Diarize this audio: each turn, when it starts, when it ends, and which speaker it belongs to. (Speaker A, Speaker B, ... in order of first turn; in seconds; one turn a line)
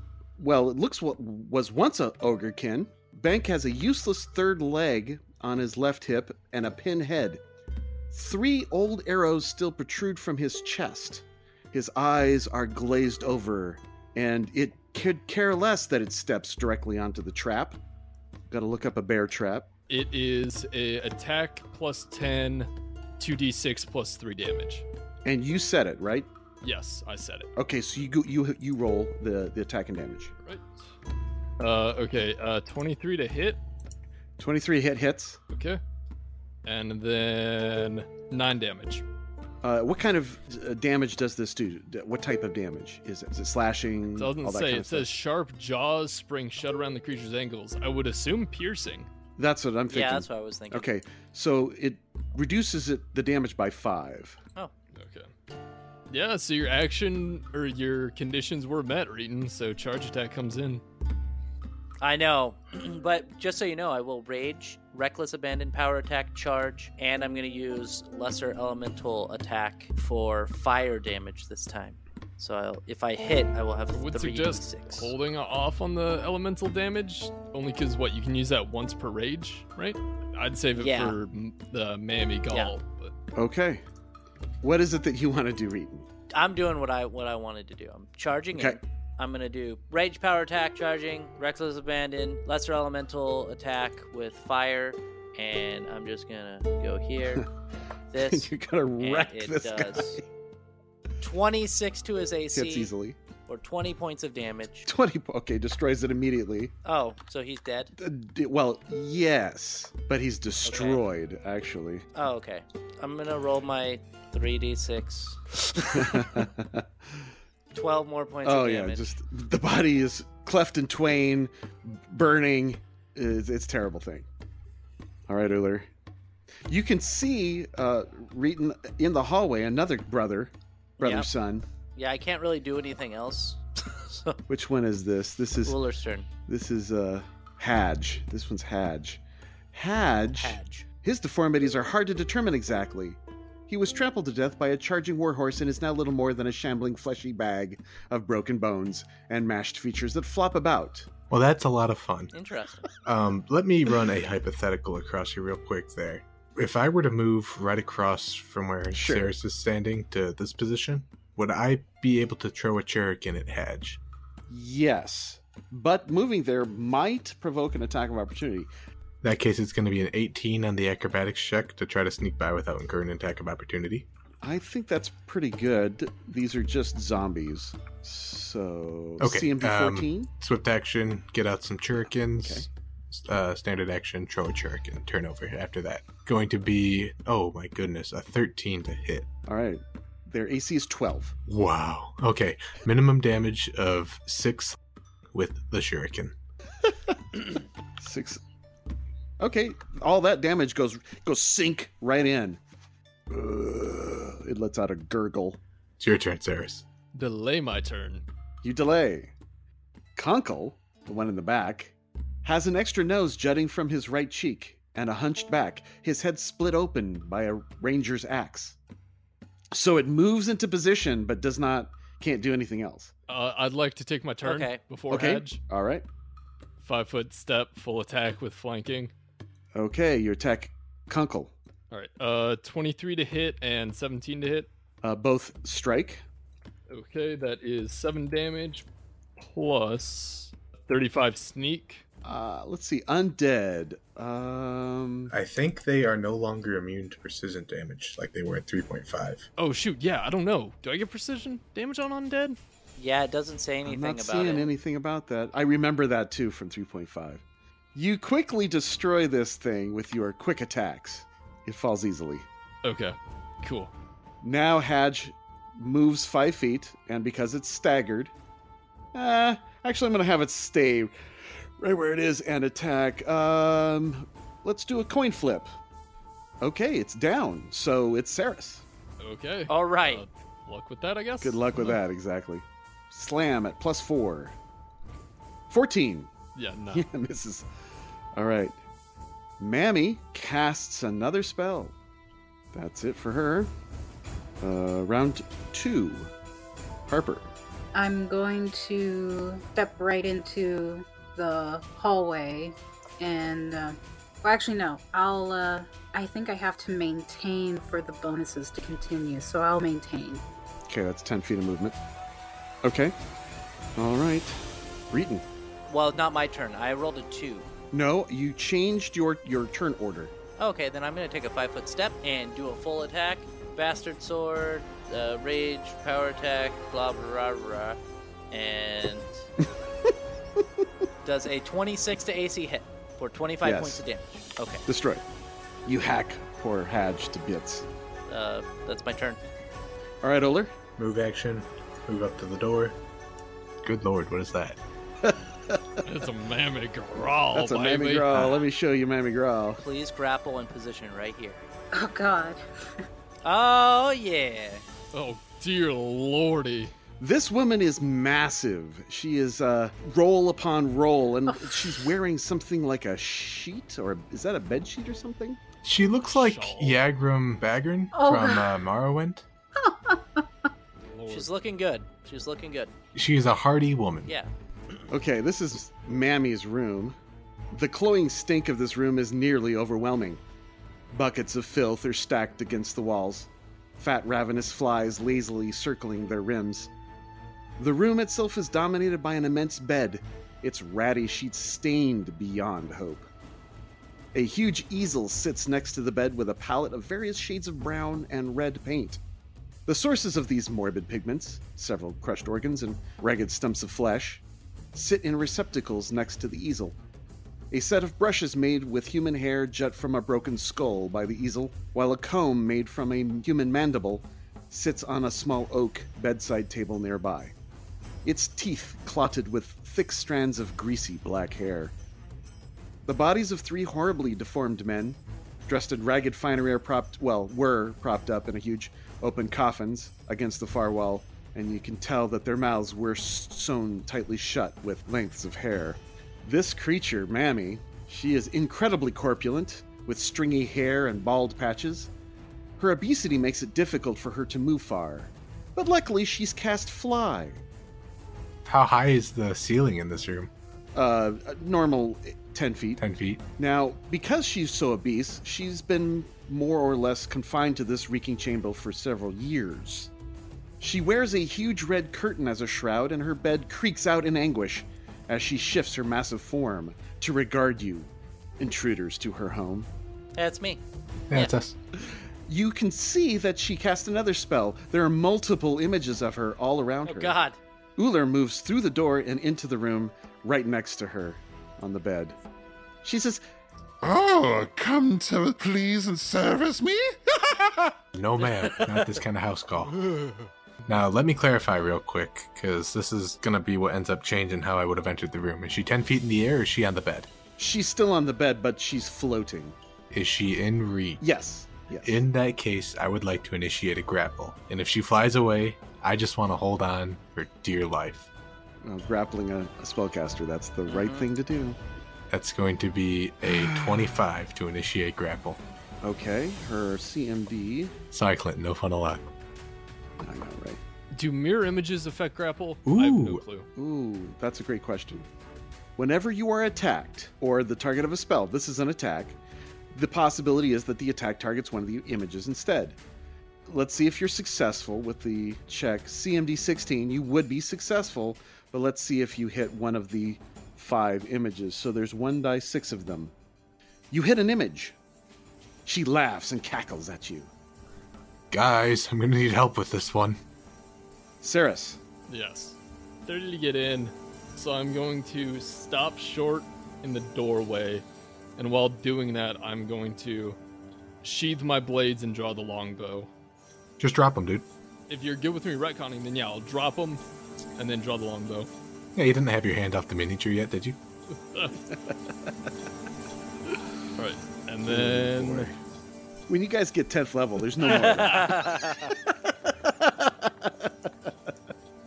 Speaker A: 0.4-7.4
Speaker A: 8.1-17.8
Speaker A: 18.5-19.7
Speaker B: 19.9-24.9
Speaker A: 25.2-26.3
Speaker B: 26.6-27.5
Speaker A: 27.6-30.3
Speaker B: 30.4-30.9
Speaker B: 31.6-33.6
Speaker A: 34.4-35.4
Speaker B: 35.5-35.8
Speaker B: 36.6-39.0
Speaker A: 39.6-45.1
Speaker B: 44.2-49.1
Speaker A: 49.4-54.4
Speaker C: 49.9-50.9
Speaker B: 55.0-55.3
Speaker B: 56.1-60.8
Speaker C: 62.0-75.1
Speaker B: 73.9-83.1
Speaker C: 80.8-81.2
Speaker A: 83.3-83.8
Speaker A: 84.6-86.1
Speaker C: 86.3-97.5
Speaker C: 98.1-100.2
Speaker A: 98.2-100.2
Speaker C: 101.2-102.9
Speaker A: 102.5-103.2
Speaker C: 103.5-104.9
Speaker A: 104.9-106.7
Speaker C: 106.8-107.9
Speaker A: 108.0-112.1
Speaker C: 110.7-111.0
Speaker C: 112.2-115.5
Speaker A: 115.9-117.3
Speaker C: 116.0-116.2
Speaker C: 117.7-119.1
Speaker A: 118.4-124.3
Speaker A: 125.3-125.9
Speaker A: 126.7-131.7
Speaker C: 131.0-131.3
Speaker C: 132.0-134.4
Speaker A: 134.5-135.8
Speaker C: 135.6-136.3
Speaker A: 136.5-139.2
Speaker A: 139.7-151.1
Speaker C: 140.4-140.9
Speaker D: 151.3-152.3
Speaker C: 152.3-152.9
Speaker D: 153.0-164.0
Speaker A: 158.9-159.3
Speaker A: 164.5-168.7
Speaker D: 169.2-174.1
Speaker A: 174.4-180.3
Speaker D: 179.2-189.3
Speaker A: 182.0-182.7
Speaker A: 189.5-191.3
Speaker D: 191.5-194.8
Speaker D: 195.3-196.3
Speaker A: 198.0-198.4
Speaker A: 199.4-202.6
Speaker A: 203.3-205.6
Speaker D: 206.0-206.8
Speaker B: 207.1-208.2
Speaker A: 208.6-209.3
Speaker A: 210.2-218.8
Speaker A: 219.7-223.1
Speaker B: 223.3-225.6
Speaker C: 224.4-224.8
Speaker A: 225.1-226.1
Speaker B: 226.8-229.1
Speaker A: 229.8-231.5
Speaker B: 231.9-234.7
Speaker A: 235.0-236.2
Speaker B: 236.9-238.8
Speaker B: 239.4-242.0
Speaker A: 242.2-245.3
Speaker D: 245.3-249.5
Speaker B: 249.6-252.6
Speaker C: 253.0-254.7
Speaker A: 253.8-257.4
Speaker A: 257.9-262.5
Speaker B: 262.8-263.9
Speaker A: 264.4-268.3
Speaker A: 269.1-275.7
Speaker A: 276.6-278.9
Speaker B: 279.2-282.0
Speaker C: 279.7-280.2
Speaker A: 281.4-284.6
Speaker A: 285.7-286.3
Speaker B: 286.6-287.1
Speaker A: 286.9-287.7
Speaker A: 288.4-288.8
Speaker A: 289.6-291.9
Speaker A: 292.7-293.7
Speaker A: 294.6-296.3
Speaker A: 297.1-297.5
Speaker E: 297.9-310.4
Speaker A: 310.9-312.0
Speaker A: 312.8-313.1
Speaker A: 314.0-315.5
Speaker C: 315.9-317.7
Speaker A: 317.9-320.3
Speaker C: 320.6-328.0
Speaker C: 328.5-329.4
Speaker A: 329.6-330.9
Speaker C: 331.2-334.8
Speaker A: 333.6-334.0
Speaker A: 334.9-335.2
Speaker A: 335.9-337.9
Speaker C: 338.3-339.4
Speaker A: 340.2-340.8
Speaker D: 341.0-343.0
Speaker D: 343.8-344.8
Speaker A: 345.2-346.0
Speaker B: 346.0-348.3
Speaker A: 347.5-349.8
Speaker C: 349.8-351.6
Speaker E: 351.9-353.0
Speaker C: 353.4-354.8
Speaker B: 355.1-356.9
Speaker A: 357.2-365.6
Speaker E: 361.5-362.1
Speaker D: 365.8-369.4
Speaker B: 366.2-367.0
Speaker E: 368.1-368.8
Speaker E: 369.8-370.5
Speaker B: 371.1-371.5
Speaker C: 371.3-372.9
Speaker D: 373.1-374.3
Speaker C: 374.2-374.5
Speaker A: 375.1-377.2
Speaker A: 377.7-380.4
Speaker A: 381.1-386.9
Speaker A: 387.8-393.3
Speaker A: 394.3-399.2
Speaker A: 399.9-407.0
Speaker A: 407.7-417.5
Speaker A: 418.2-421.9
Speaker A: 423.1-442.1
Speaker A: 442.8-447.6
Speaker D: 448.6-450.5
Speaker A: 450.9-453.0
Speaker D: 453.0-453.4
Speaker A: 453.6-460.1
Speaker A: 460.8-469.9
Speaker C: 470.4-470.8
Speaker D: 471.3-471.8
Speaker A: 472.0-477.4
Speaker C: 477.1-477.6
Speaker A: 478.0-482.4
Speaker A: 483.0-483.4
Speaker F: 484.0-488.0
Speaker D: 488.1-490.1
Speaker B: 490.0-490.4
Speaker D: 490.9-497.3
Speaker A: 497.6-499.8
Speaker D: 500.1-501.2
Speaker A: 501.2-502.2
Speaker D: 502.0-508.3
Speaker A: 508.8-511.8
Speaker C: 510.9-511.3
Speaker D: 512.3-515.6
Speaker A: 513.5-514.1
Speaker A: 516.0-517.9
Speaker D: 518.1-519.3
Speaker A: 520.2-520.8
Speaker B: 521.1-523.7
Speaker D: 522.9-523.4
Speaker A: 523.8-525.3
Speaker A: 526.0-529.4
Speaker A: 529.9-533.0
Speaker A: 533.7-543.3
Speaker A: 544.1-545.0
Speaker A: 545.9-547.5
Speaker D: 548.5-550.4
Speaker A: 551.4-552.0
Speaker B: 552.3-558.0
Speaker B: 558.6-560.6
Speaker B: 561.2-563.3
Speaker D: 564.0-564.6
Speaker B: 565.1-567.2
Speaker B: 567.8-568.7
Speaker D: 569.2-571.0
Speaker B: 571.4-571.8
Speaker B: 574.2-575.7
Speaker A: 574.9-575.7
Speaker A: 576.5-581.5
Speaker C: 577.8-579.1